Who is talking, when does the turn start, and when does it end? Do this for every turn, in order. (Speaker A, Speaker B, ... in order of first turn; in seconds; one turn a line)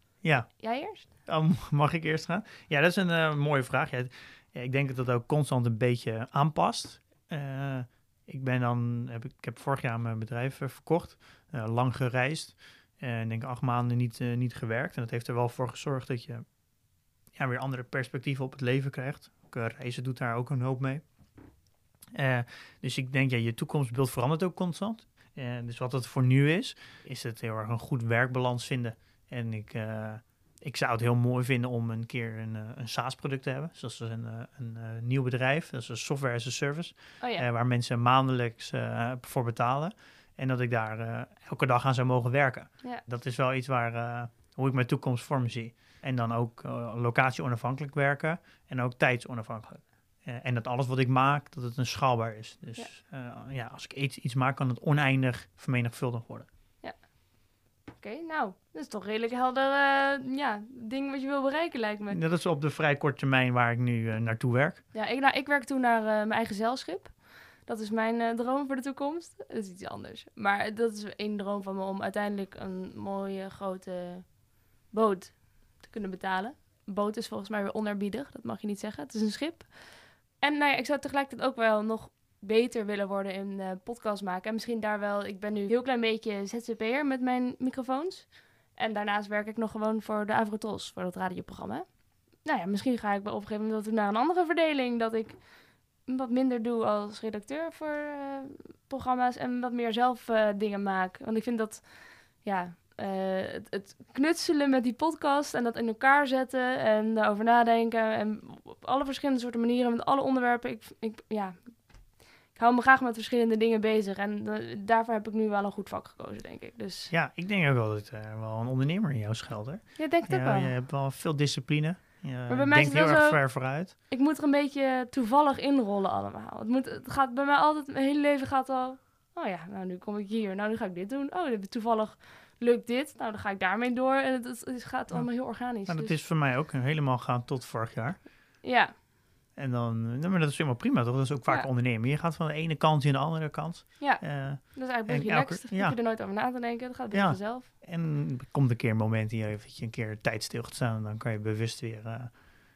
Speaker A: 0.2-16.5
Speaker B: 0.6-1.1
Speaker A: 17.3-21.0
Speaker A: 22.1-56.5
Speaker B: 37.2-37.4
Speaker B: 56.8-57.4
Speaker B: 57.9-62.2
Speaker A: 62.1-64.8
Speaker B: 64.9-95.5
Speaker B: 96.0-117.1
Speaker A: 117.1-123.9
Speaker B: 120.0-120.7
Speaker B: 122.5-136.2
Speaker A: 135.1-138.3
Speaker B: 138.6-138.9
Speaker A: 139.6-146.0
Speaker B: 144.0-147.7
Speaker A: 147.1-152.4